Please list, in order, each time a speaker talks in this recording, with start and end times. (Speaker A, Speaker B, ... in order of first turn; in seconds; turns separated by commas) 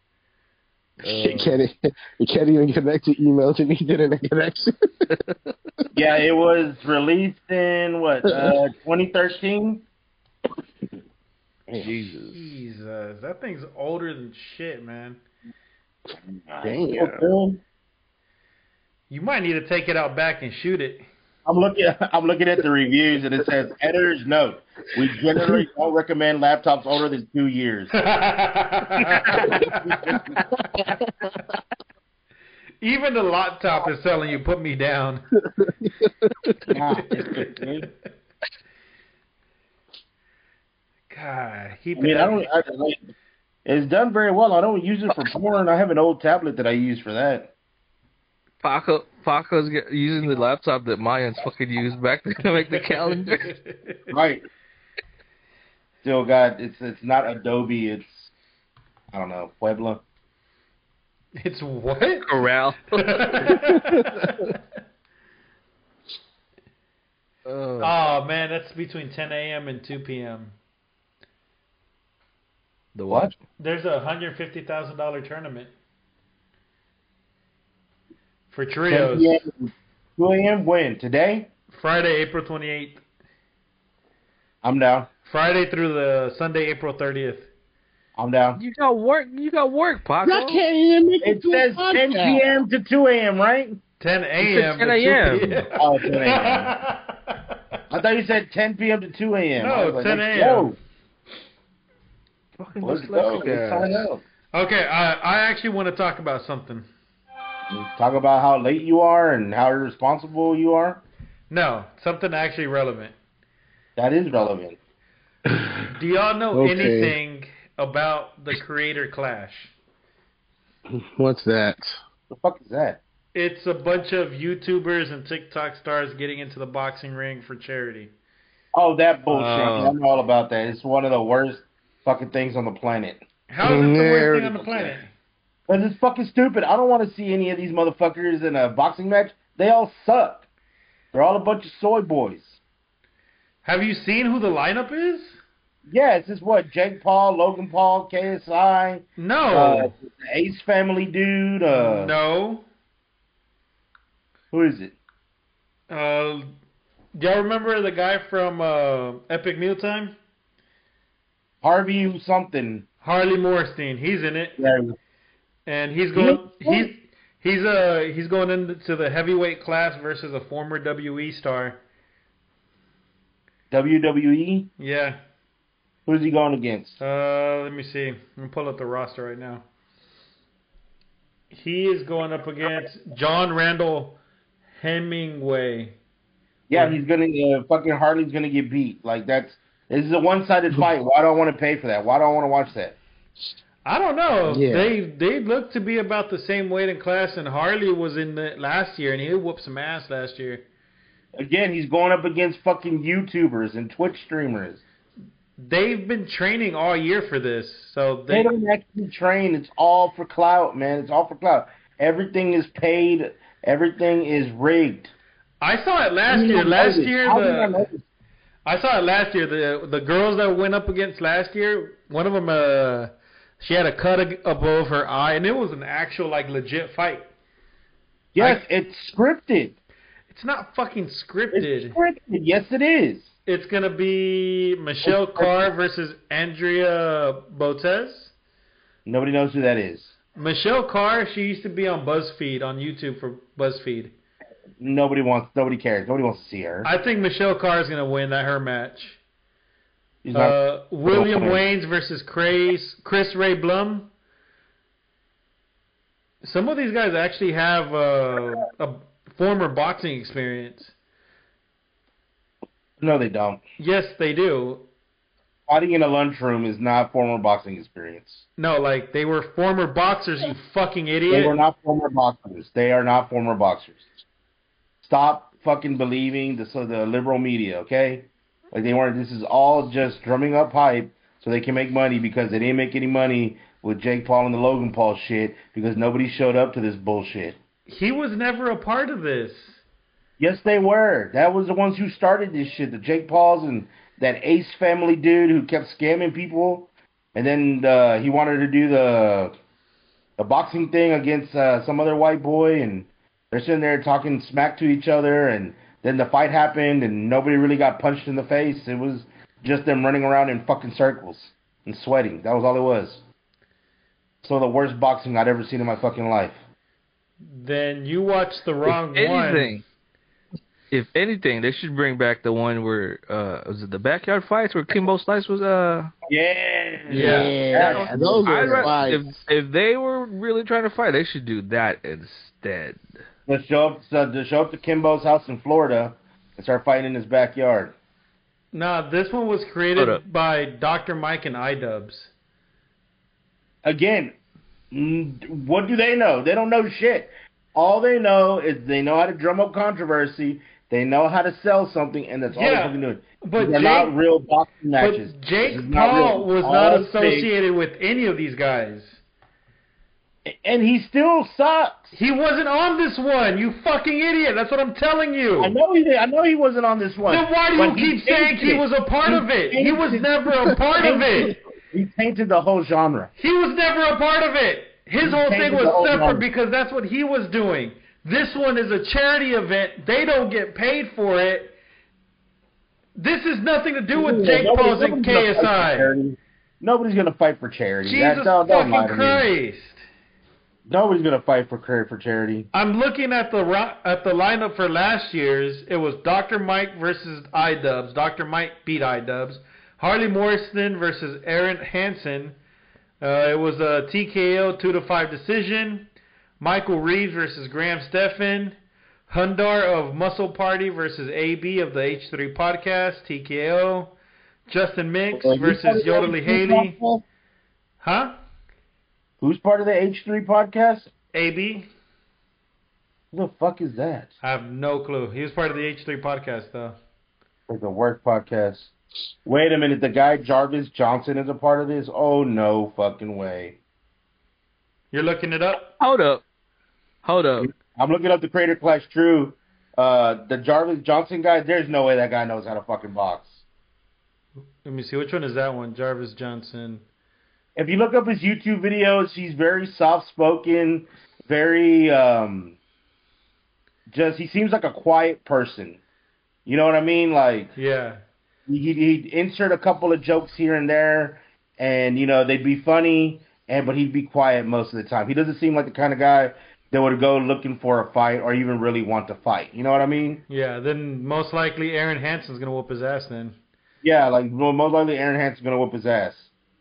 Speaker A: 1.0-1.6, Speaker B: 1.0-5.0, Speaker A: 5.9-9.8, Speaker B: 8.3-8.5, Speaker C: 11.7-12.5, Speaker D: 12.3-15.2, Speaker A: 16.4-17.6, Speaker B: 16.6-17.3, Speaker D: 19.1-21.0, Speaker A: 21.4-28.0, Speaker B: 25.4-25.6, Speaker D: 27.9-30.2, Speaker A: 29.2-30.4, Speaker B: 30.7-31.1, Speaker D: 32.8-35.2, Speaker B: 35.5-36.7, Speaker A: 36.7-37.9, Speaker D: 37.1-37.4, Speaker D: 41.1-42.5, Speaker A: 42.0-43.1, Speaker A: 43.6-47.5, Speaker C: 48.6-53.5, Speaker D: 52.6-54.1, Speaker A: 54.1-54.5, Speaker A: 56.0-58.3, Speaker A: 59.1-60.0, Speaker D: 61.4-62.4, Speaker C: 62.3-63.5, Speaker D: 63.0-64.6, Speaker C: 67.5-67.9, Speaker D: 67.8-70.5, Speaker C: 72.9-73.3, Speaker A: 73.1-73.3, Speaker D: 73.6-75.7, Speaker D: 78.5-79.4, Speaker A: 78.9-81.5, Speaker D: 81.7-83.0, Speaker A: 84.6-85.1, Speaker D: 85.2-87.5, Speaker A: 88.2-88.6, Speaker C: 88.6-90.6, Speaker B: 90.2-92.4, Speaker A: 91.2-93.8, Speaker D: 94.0-97.4, Speaker C: 94.4-95.6, Speaker A: 95.8-96.7, Speaker A: 97.9-100.8, Speaker D: 99.6-100.7, Speaker C: 102.6-104.0, Speaker A: 102.8-104.2, Speaker D: 104.5-106.9, Speaker A: 107.7-111.0, Speaker D: 111.5-113.1, Speaker A: 114.0-114.8, Speaker B: 115.5-115.8, Speaker D: 115.9-119.7, Speaker B: 116.5-117.2, Speaker B: 120.9-122.0, Speaker A: 122.3-123.0, Speaker D: 123.3-128.1, Speaker A: 128.7-133.2, Speaker C: 129.3-129.9, Speaker D: 129.3-129.8, Speaker D: 133.5-135.1, Speaker B: 133.6-135.0, Speaker A: 135.7-140.4, Speaker A: 141.1-142.6, Speaker D: 143.6-145.4, Speaker A: 145.9-152.1, Speaker D: 149.2-149.9, Speaker D: 151.7-152.6, Speaker A: 154.5-155.0, Speaker D: 155.9-156.5, Speaker D: 157.1-160.1, Speaker A: 161.6-162.8, Speaker D: 163.0-164.6, Speaker A: 164.6-164.9, Speaker D: 165.7-171.8, Speaker A: 166.1-166.9, Speaker A: 173.7-174.7, Speaker D: 174.8-175.2, Speaker A: 176.1-177.0, Speaker D: 177.0-179.6, Speaker D: 181.5-184.2, Speaker D: 184.8-185.9, Speaker A: 186.7-193.0, Speaker D: 186.7-187.0, Speaker D: 193.8-200.6, Speaker B: 194.5-194.9, Speaker A: 201.4-204.8, Speaker D: 205.6-208.5, Speaker A: 208.3-215.1, Speaker D: 215.6-217.7, Speaker A: 216.3-218.0, Speaker D: 218.7-227.3, Speaker A: 228.3-229.8, Speaker D: 228.4-228.6, Speaker D: 230.3-232.0, Speaker A: 231.5-233.3, Speaker D: 233.4-238.3, Speaker A: 235.0-235.5, Speaker A: 239.0-240.1, Speaker D: 240.4-244.1, Speaker A: 244.8-246.9, Speaker D: 246.8-249.2, Speaker A: 250.2-251.6, Speaker D: 250.3-254.1, Speaker D: 256.4-260.9, Speaker A: 263.0-263.6, Speaker D: 263.8-264.8, Speaker A: 265.7-268.4, Speaker D: 268.6-271.6, Speaker A: 271.3-274.0, Speaker A: 275.0-287.6, Speaker D: 287.9-289.8, Speaker A: 290.4-299.5, Speaker A: 300.4-313.2, Speaker A: 314.4-316.6, Speaker D: 317.5-319.7, Speaker C: 318.9-319.8, Speaker C: 320.9-326.1, Speaker A: 326.3-329.0, Speaker B: 327.1-329.3, Speaker D: 327.1-327.5, Speaker C: 327.3-333.0, Speaker A: 333.5-337.9, Speaker D: 338.7-342.3, Speaker C: 339.9-340.2, Speaker A: 343.8-344.4, Speaker A: 344.9-357.5, Speaker D: 352.5-354.1, Speaker D: 355.0-359.2, Speaker A: 360.4-362.1, Speaker D: 362.1-365.8, Speaker A: 365.6-370.2, Speaker D: 367.3-371.5, Speaker A: 371.0-373.3, Speaker D: 373.4-381.7, Speaker A: 375.2-376.4, Speaker D: 383.1-386.1, Speaker A: 384.1-389.4, Speaker D: 388.0-390.0, Speaker A: 390.9-392.7, Speaker D: 392.7-402.6, Speaker D: 403.2-406.1, Speaker D: 406.6-408.8, Speaker D: 409.3-414.1, Speaker D: 414.7-417.0, Speaker A: 415.3-417.2, Speaker D: 418.0-418.3, Speaker A: 419.4-421.1, Speaker D: 421.3-421.9, Speaker A: 423.3-424.3, Speaker D: 424.4-427.0, Speaker A: 427.7-428.9, Speaker A: 429.4-433.8, Speaker D: 435.1-435.9, Speaker C: 436.0-436.4, Speaker C: 437.2-437.7, Speaker A: 437.6-443.6, Speaker D: 444.8-447.0, Speaker A: 447.8-452.8, Speaker A: 454.1-456.0, Speaker A: 456.6-457.7, Speaker D: 457.8-458.2, Speaker A: 458.7-470.4, Speaker D: 470.5-473.6, Speaker A: 474.0-476.5